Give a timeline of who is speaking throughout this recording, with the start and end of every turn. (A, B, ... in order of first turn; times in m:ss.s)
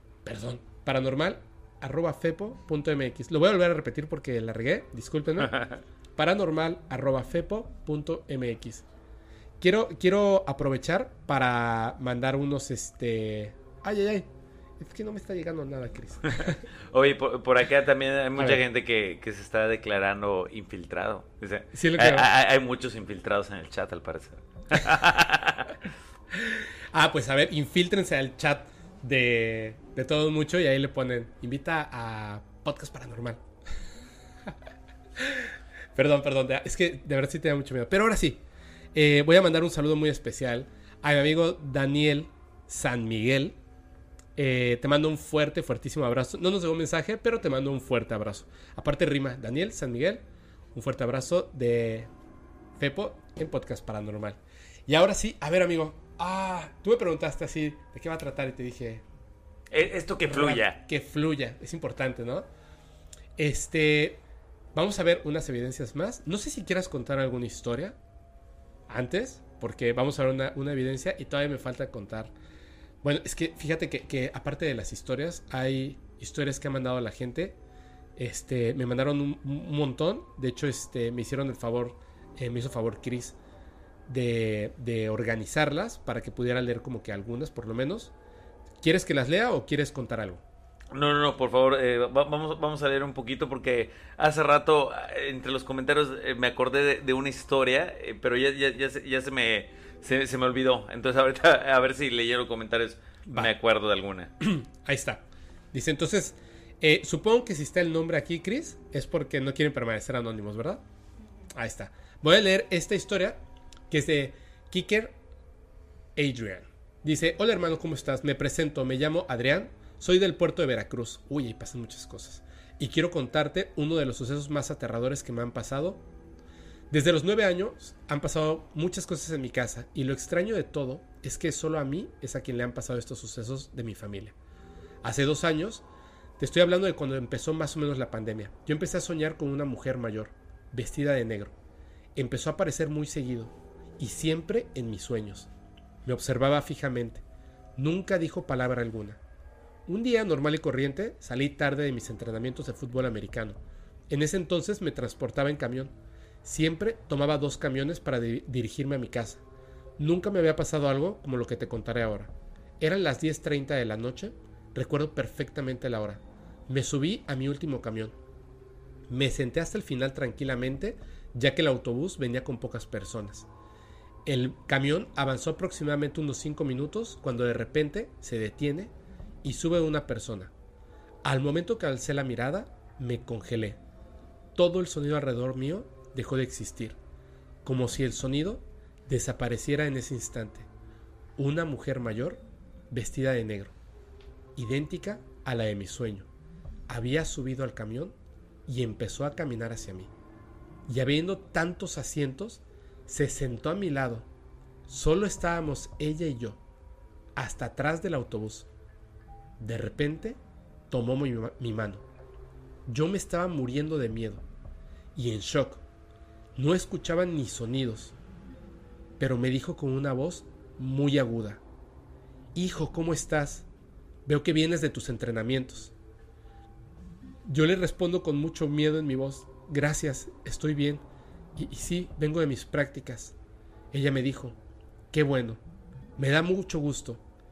0:00.2-0:05.6 A
0:05.4-0:05.8 B
0:06.2-0:08.8 A
0:09.6-0:16.6 A
0:16.4-0:25.8 B
0:21.7-0:22.3 A
0:26.3-0:33.4 A
0:35.2-0:38.4 A
0:38.9-0:43.6 A
0:44.4-0:52.1 A
0:52.8-0:59.0 A
0:59.7-1:00.8 B
1:00.3-1:02.5 A
1:03.4-1:04.2 A
1:04.7-1:08.0 A
1:08.9-1:12.3 A
1:13.0-1:17.6 A
1:18.2-1:23.4 A
1:24.1-1:28.1 A
1:28.8-1:30.4 A
1:30.9-1:44.3 B
1:44.4-1:50.8 A
1:51.5-1:55.2 A
1:56.2-2:06.0 A
2:06.9-2:14.4 A
2:15.0-2:15.8 A
2:16.4-2:21.6 A
2:22.2-2:25.5 A
2:26.0-2:27.2 A
2:27.8-2:29.2 A
2:29.9-2:39.4 A
2:40.0-2:48.2 A
2:49.1-2:53.5 A
2:54.2-2:58.9 A
2:59.4-3:00.5 A
3:01.2-3:03.8 A
3:04.6-3:07.0 A
3:07.6-3:10.7 A
3:11.4-3:13.7 A
3:14.6-3:16.3 A
3:16.9-3:18.2 A
3:18.7-3:20.1 A
3:20.9-3:24.3 A
3:24.9-3:26.6 A
3:27.4-3:28.7 A
3:29.6-3:30.4 A
3:30.9-3:32.0 A
3:32.9-3:34.4 A
3:35.2-3:35.8 A
3:36.6-3:38.2 A
3:39.2-3:41.6 A
3:42.5-3:43.7 A
3:44.3-3:45.9 A
3:47.4-3:51.0 A
3:51.6-3:53.4 A
3:53.9-3:54.6 A
3:55.1-3:55.6 A
3:56.2-3:57.2 A